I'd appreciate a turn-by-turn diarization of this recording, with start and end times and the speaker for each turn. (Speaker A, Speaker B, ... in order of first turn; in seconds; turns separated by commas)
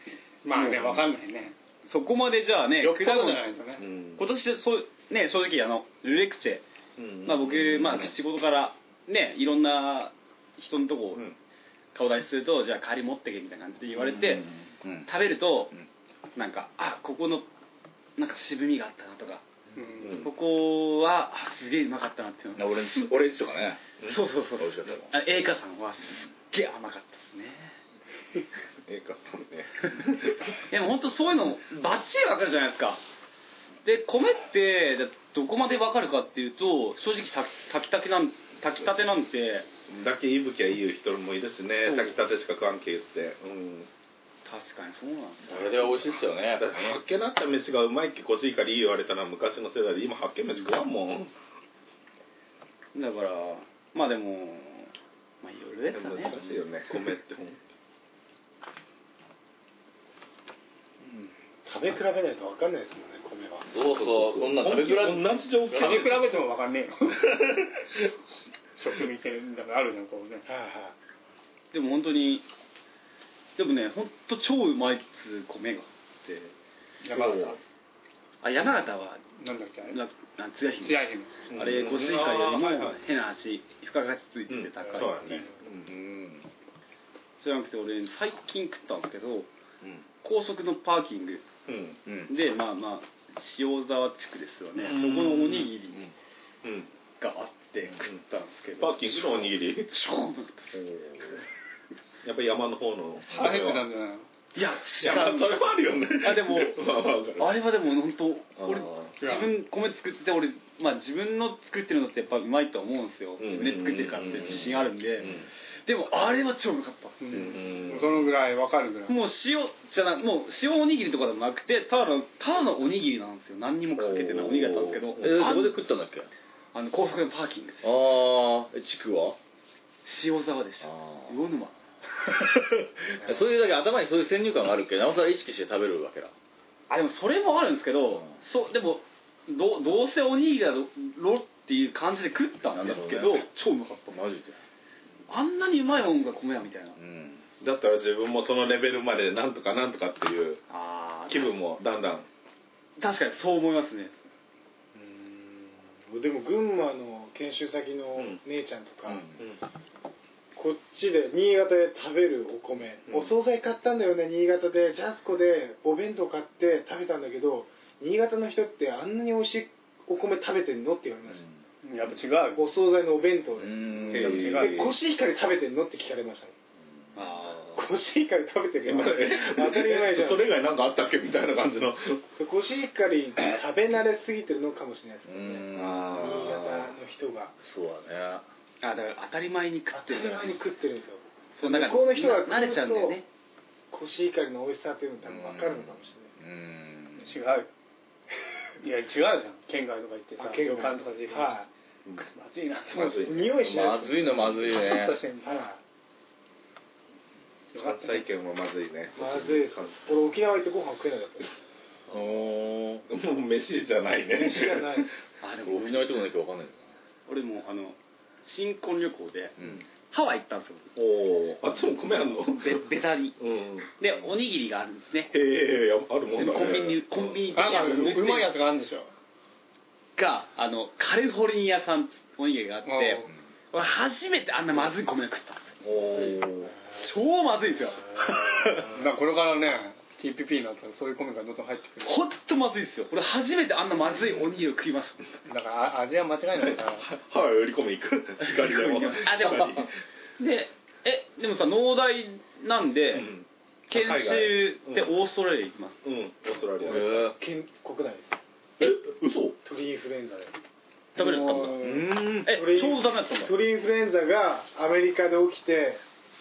Speaker A: 0.4-1.5, Speaker B: 0.5-1.1, Speaker B: 1.8-3.4, Speaker A: 2.8-3.9, Speaker C: 3.8-4.2, Speaker B: 4.2-6.6, Speaker C: 7.0-8.1, Speaker B: 7.2-11.2, Speaker B: 11.9-14.4, Speaker D: 13.9-15.1, Speaker B: 15.1-15.7, Speaker B: 16.4-17.5, Speaker B: 18.2-19.4, Speaker A: 19.8-20.2, Speaker C: 20.0-20.3, Speaker B: 20.0-23.1, Speaker D: 22.6-23.8, Speaker B: 24.0-27.8, Speaker D: 24.6-25.1, Speaker C: 28.9-30.5, Speaker B: 30.7-33.0, Speaker B: 33.8-39.7, Speaker C: 39.9-43.9, Speaker B: 41.8-42.2, Speaker B: 44.4-46.1, Speaker D: 45.5-47.0, Speaker C: 46.6-51.3, Speaker B: 52.9-56.5, Speaker C: 55.9-57.6, Speaker E: 61.6-63.7, Speaker D: 63.7-65.3, Speaker C: 63.7-66.5, Speaker A: 65.7-67.4, Speaker A: 68.8-70.5, Speaker E: 70.5-70.9, Speaker B: 71.7-72.5, Speaker B: 73.6-76.5, Speaker A: 77.0-77.6, Speaker C: 77.1-77.6, Speaker B: 78.4-79.2, Speaker A: 79.4-80.0, Speaker B: 79.9-85.5, Speaker A: 80.8-81.3, Speaker C: 81.5-83.0, Speaker C: 84.5-86.0, Speaker D: 85.9-86.5, Speaker B: 87.4-89.5, Speaker B: 90.2-91.4, Speaker C: 91.7-92.0, Speaker D: 92.0-92.3, Speaker B: 92.3-96.0, Speaker C: 94.8-95.9, Speaker C: 96.6-96.9, Speaker B: 97.2-100.8, Speaker C: 98.8-99.9, Speaker C: 100.7-101.4, Speaker C: 102.2-103.9, Speaker A: 103.3-104.3, Speaker B: 104.5-106.8, Speaker C: 105.0-107.7, Speaker B: 107.4-117.6, Speaker C: 108.6-109.2, Speaker A: 109.2-109.5, Speaker C: 113.4-115.5, Speaker A: 117.2-119.2, Speaker C: 117.3-118.3, Speaker B: 119.1-125.8, Speaker C: 123.9-125.6, Speaker D: 125.2-126.3, Speaker B: 126.7-127.9, Speaker D: 127.8-129.4, Speaker B: 130.0-131.8, Speaker D: 130.8-131.3, Speaker D: 132.5-136.3, Speaker B: 136.9-144.2, Speaker D: 142.7-143.5, Speaker D: 144.1-144.6, Speaker B: 145.3-147.0, Speaker D: 146.9-147.4, Speaker C: 147.6-150.6, Speaker B: 150.7-151.6, Speaker C: 151.3-152.3, Speaker B: 153.0-154.3, Speaker E: 154.9-159.2, Speaker C: 158.2-158.4, Speaker D: 159.1-159.4, Speaker E: 160.6-171.4, Speaker C: 163.1-163.3, Speaker A: 171.8-172.7, Speaker E: 172.6-176.5, Speaker D: 173.6-174.3, Speaker C: 174.1-174.9, Speaker A: 174.1-174.9, Speaker B: 177.1-177.8, Speaker E: 177.7-180.5, Speaker C: 178.8-182.2, Speaker E: 182.4-187.6, Speaker D: 185.3-186.7, Speaker C: 185.7-186.9, Speaker D: 187.6-188.4, Speaker B: 188.8-190.6, Speaker E: 189.9-193.2, Speaker B: 191.5-193.3, Speaker E: 193.9-196.3, Speaker D: 195.3-197.3, Speaker A: 197.2-197.7, Speaker A: 198.8-201.7, Speaker E: 200.4-201.7, Speaker A: 202.2-203.5, Speaker C: 202.9-203.8, Speaker E: 203.2-204.5, Speaker D: 203.6-205.2, Speaker A: 204.4-205.6, Speaker E: 205.4-205.8, Speaker A: 207.7-208.2, Speaker C: 207.7-210.1, Speaker E: 209.1-211.5, Speaker C: 212.1-212.4, Speaker D: 212.1-213.0, Speaker C: 213.1-215.1, Speaker E: 214.3-215.1, Speaker B: 215.4-216.3, Speaker D: 215.6-216.8, Speaker B: 217.3-219.5, Speaker D: 219.6-219.8, Speaker B: 220.1-220.9, Speaker C: 220.9-222.8, Speaker B: 222.4-223.4, Speaker C: 223.4-224.1, Speaker B: 224.0-225.3, Speaker C: 225.3-228.2, Speaker B: 226.3-228.5, Speaker A: 227.5-229.1, Speaker B: 230.2-235.7, Speaker A: 232.8-233.3, Speaker C: 235.8-236.8, Speaker B: 236.9-238.1, Speaker A: 238.8-242.2, Speaker B: 242.0-245.2, Speaker A: 245.4-247.1, Speaker C: 246.6-249.9, Speaker B: 248.7-249.9, Speaker B: 250.4-253.3, Speaker C: 253.1-255.1, Speaker B: 253.9-256.0, Speaker C: 256.0-257.3, Speaker D: 256.8-257.4, Speaker E: 257.2-258.4, Speaker C: 258.8-259.6, Speaker E: 259.6-260.6, Speaker A: 261.1-262.1, Speaker B: 261.1-263.5, Speaker C: 261.9-262.3, Speaker E: 262.4-266.0